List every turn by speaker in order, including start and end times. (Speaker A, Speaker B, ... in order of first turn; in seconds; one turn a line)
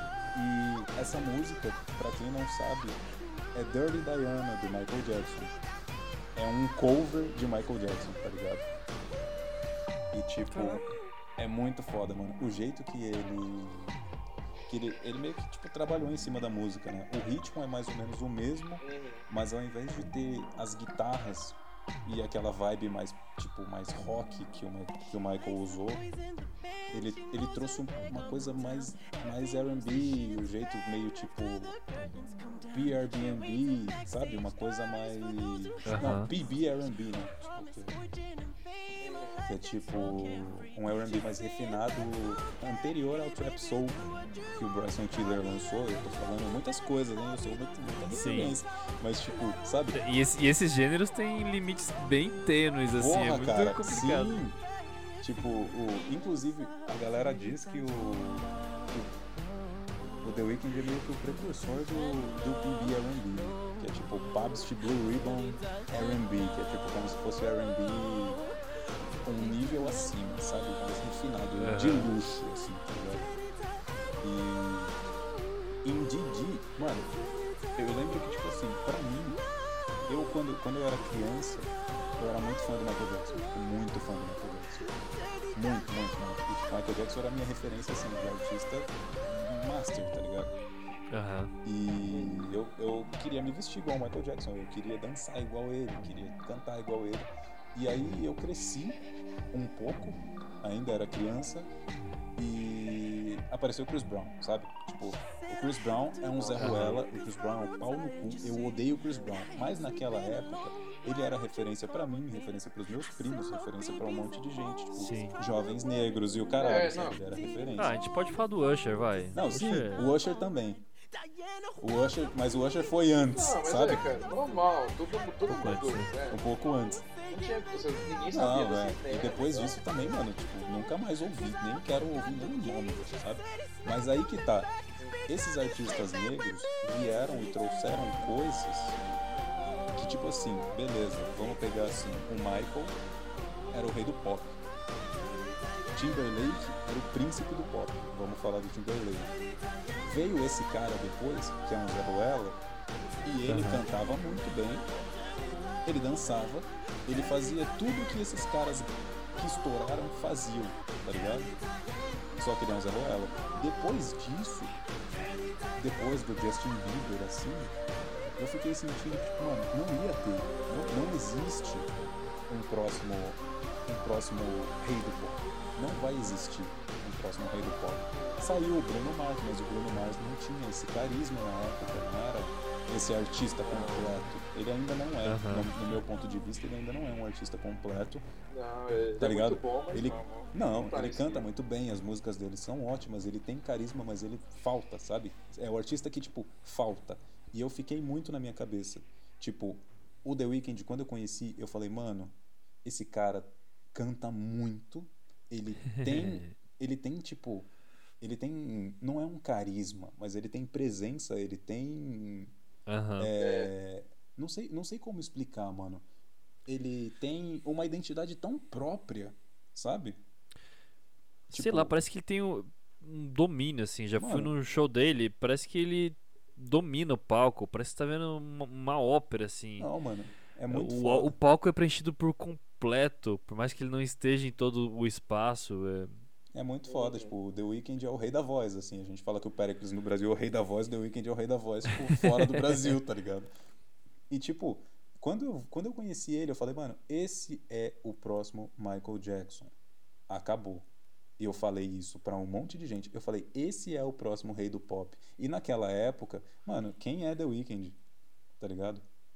Speaker A: 0.3-3.0
Speaker A: 3.5-5.5
Speaker A: 6.3-8.7
Speaker A: 10.1-14.0
Speaker B: 10.5-10.8
Speaker A: 14.7-26.0
Speaker C: 18.8-19.2
Speaker A: 26.9-31.8
Speaker A: 32.7-38.0
Speaker B: 35.9-36.3
Speaker C: 39.0-39.4
Speaker A: 39.5-50.0
Speaker B: 48.1-48.6
Speaker B: 49.9-54.4
Speaker A: 52.9-54.6
Speaker A: 55.2-59.1
Speaker A: 60.2-68.4
Speaker A: 69.2-73.3
Speaker B: 71.6-72.1
Speaker A: 74.2-75.0
Speaker A: 75.8-77.1
Speaker A: 77.8-79.4
Speaker A: 80.0-84.9
Speaker A: 85.5-90.5
Speaker B: 91.1-91.5
Speaker A: 91.6-99.0
Speaker A: 99.5-101.7
Speaker A: 102.4-118.0
Speaker C: 106.4-106.9
Speaker B: 106.5-107.0
Speaker B: 115.0-115.4
Speaker C: 116.6-117.2
Speaker B: 117.8-120.0
Speaker A: 119.3-120.8
Speaker A: 121.8-124.2
Speaker C: 123.3-126.4
Speaker B: 125.5-126.1
Speaker A: 126.3-127.1
Speaker C: 127.3-129.8
Speaker A: 128.3-139.0
Speaker C: 135.0-135.2
Speaker A: 139.9-143.0
Speaker A: 143.7-144.6
Speaker A: 145.9-149.3
Speaker A: 150.0-152.6
Speaker A: 153.2-154.9
Speaker B: 153.5-153.8
Speaker A: 155.8-161.5
Speaker A: 162.4-164.8
Speaker A: 165.7-171.9
Speaker A: 172.5-188.2
Speaker C: 178.1-178.4
Speaker C: 183.7-184.2
Speaker B: 185.2-185.7
Speaker C: 188.5-191.5
Speaker A: 189.2-207.7
Speaker B: 205.9-206.5
Speaker A: 208.2-212.5
Speaker B: 212.9-213.3
Speaker A: 213.2-216.0
Speaker C: 213.4-213.7
Speaker A: 216.7-220.2
Speaker A: 221.5-221.9
Speaker B: 221.5-229.9
Speaker A: 224.2-224.5
Speaker A: 229.8-231.3
Speaker B: 230.7-236.2
Speaker A: 236.5-243.5
Speaker C: 236.9-237.3
Speaker B: 242.2-242.9
Speaker A: 244.3-249.7
Speaker A: 250.3-250.9
Speaker A: 251.4-258.0
Speaker A: 258.6-259.0